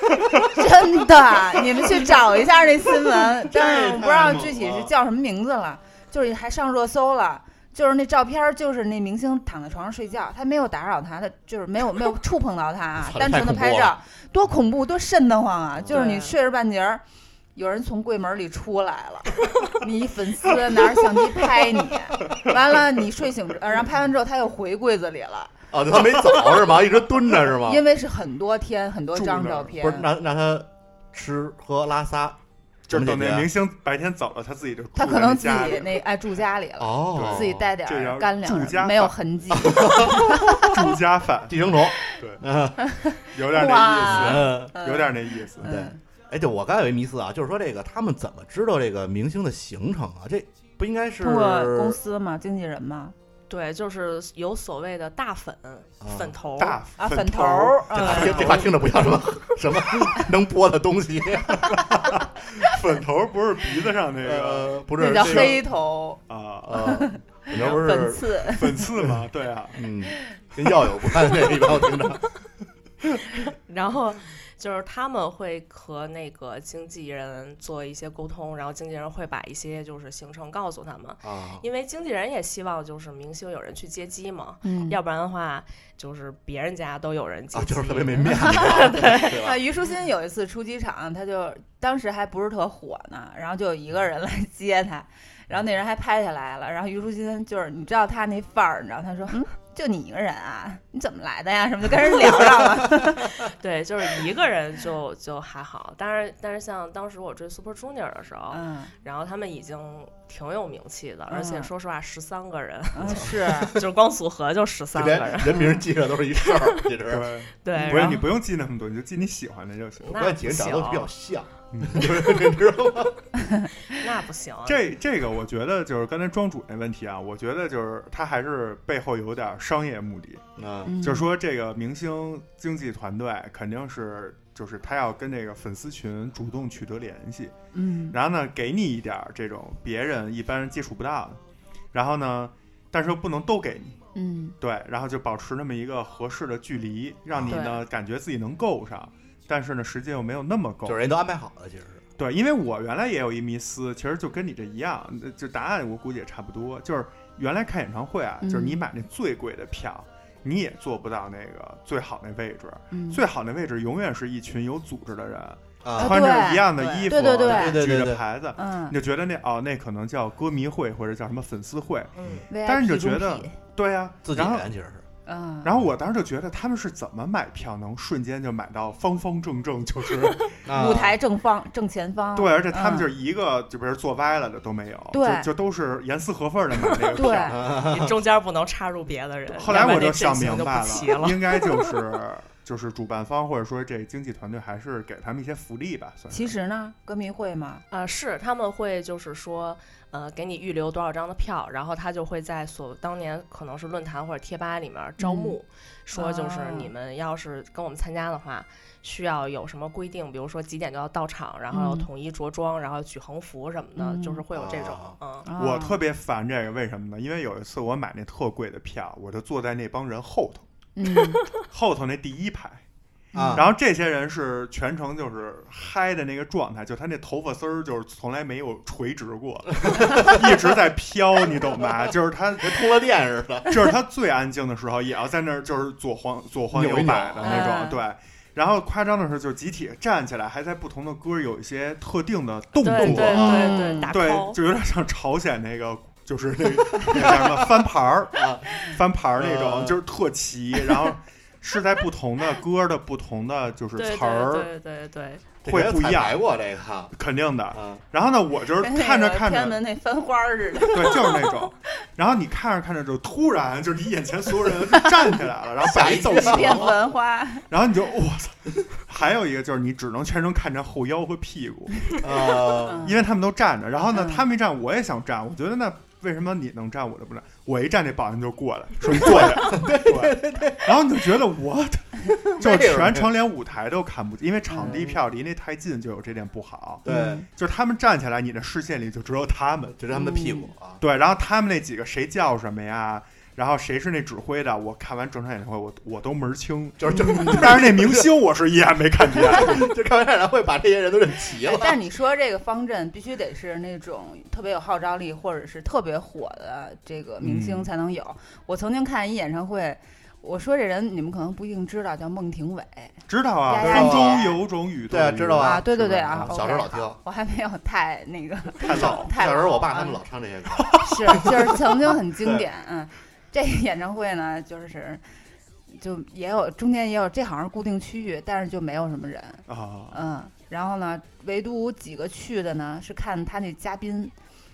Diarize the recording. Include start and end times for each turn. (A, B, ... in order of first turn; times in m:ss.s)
0:00.4-0:17.0 A
0:03.4-0:04.8 B
0:04.6-0:04.9 C
0:13.0-0:14.0 C
0:15.8-0:16.0 C
0:15.9-0:16.3 D
0:17.5-0:25.5 A
0:25.7-0:27.8 C
0:27.5-0:30.1 A
0:29.1-0:29.8 B
0:29.8-0:32.4 C
0:32.9-0:36.0 B
0:32.9-0:33.5 C
0:35.0-0:40.9 A
0:36.8-0:37.7 C
0:37.1-0:39.1 B
0:39.5-0:40.6 C
0:40.1-0:42.4 B
0:41.5-0:42.8 C
0:43.1-0:46.0 A
0:43.3-0:45.8 B
0:43.9-0:44.8 C
0:45.6-0:52.0 C
0:51.2-0:53.1 A
0:53.5-0:56.8 D
0:56.0-0:56.3 C
0:56.6-0:58.7 B
0:57.0-0:59.0 A
0:57.9-1:01.8 C
0:58.0-0:58.4 D
1:01.5-1:05.6 B
1:04.2-1:05.6 C
1:05.0-1:06.2 A
1:06.3-1:06.9 B
1:06.6-1:09.2 C
1:06.8-1:08.8 A
1:08.4-1:09.8 B
1:09.7-1:12.2 C
1:13.4-1:29.4 D
1:21.2-1:21.6 C
1:24.6-1:25.0 A
1:27.5-1:29.6 C
1:28.2-1:43.4 A
1:43.4-1:55.7 D
1:48.5-1:48.9 A
1:51.3-1:51.7 A
1:52.9-1:53.8 A
1:53.0-1:53.8 C
1:54.9-1:57.3 C
1:55.4-1:55.8 A
1:57.0-2:00.3 B
1:57.6-1:58.2 D
1:57.7-1:58.2 A
2:00.0-2:01.1 D
2:00.1-2:03.2 C
2:01.7-2:02.1 B
2:03.9-2:04.9 D
2:04.6-2:10.4 B
2:10.6-2:10.9 C
2:10.8-2:11.3 A
2:11.0-2:17.5 B
2:17.7-2:18.2 A
2:18.1-2:21.4 B
2:21.9-2:24.0 B
2:24.2-2:24.6 A
2:24.6-2:31.0 B
2:27.3-2:27.7 C
2:27.5-2:27.8 D
2:30.8-2:32.0 C
2:32.2-2:52.1 B
2:38.4-2:38.8 A
2:42.9-2:43.2 A
2:45.8-2:46.4 C
2:46.0-2:47.8 A
2:46.8-2:47.1 D
2:47.4-2:48.2 C
2:48.6-2:49.0 A
2:52.2-2:52.5 D
2:52.5-2:53.5 A
2:52.6-2:54.7 B
2:54.2-2:55.0 C
2:55.2-2:55.7 A
2:55.6-3:00.6 B
3:00.6-3:01.2 C
3:00.7-3:03.1 A
3:02.3-3:07.6 B
3:05.1-3:05.5 A
3:07.1-3:07.6 A
3:07.4-3:08.2 C
3:07.7-3:11.9 D
3:09.6-3:16.5 B
3:16.3-3:17.8 A
3:17.9-3:35.5 D
3:25.2-3:25.6 A
3:26.1-3:26.9 A
3:31.7-3:32.1 A
3:34.0-3:34.4 A
3:34.5-3:35.2 C
3:35.4-3:36.0 A
3:35.6-3:40.6 B
3:41.0-3:41.4 A
3:41.7-3:42.8 B
3:43.3-3:43.6 A
3:43.3-3:43.7 C
3:43.5-3:52.9 B
3:49.8-3:50.6 C
3:52.6-3:53.8 C
3:53.7-4:14.7 B
3:56.7-3:57.8 C
3:57.4-3:58.0 A
4:02.8-4:04.6 D
4:03.0-4:03.9 C
4:03.3-4:04.1 A
4:07.0-4:07.7 C
4:08.3-4:10.0 C
4:14.0-4:15.4 D
4:15.6-4:17.1 C
4:15.6-4:16.4 B
4:17.1-4:19.8 B
4:17.7-4:18.0 C
4:18.8-4:21.6 A
4:20.8-4:27.0 B
4:25.8-4:27.0 C
4:25.9-4:27.7 A
4:27.7-4:32.1 B
4:32.2-4:33.1 C
4:32.8-4:33.2 A
4:32.9-4:50.0 B
4:34.1-4:34.4 A
4:39.0-4:40.9 C
4:42.3-4:43.3 C
4:44.7-4:45.2 A
4:47.0-4:47.4 C
4:47.1-4:47.4 A
4:50.0-4:51.0 C
4:50.1-4:50.7 A
4:51.0-4:59.9 B
4:57.0-4:58.3 C
4:59.2-5:02.0 C
5:01.6-5:14.6 A
5:07.4-5:07.9 B
5:13.3-5:16.6 B
5:13.8-5:14.5 C
5:15.1-5:17.2 C
5:15.6-5:20.2 A
5:18.7-5:19.3 B
5:18.9-5:22.7 C
5:20.8-5:21.3 B
5:20.9-5:25.2 A
5:25.9-5:34.3 A
5:29.7-5:30.2 B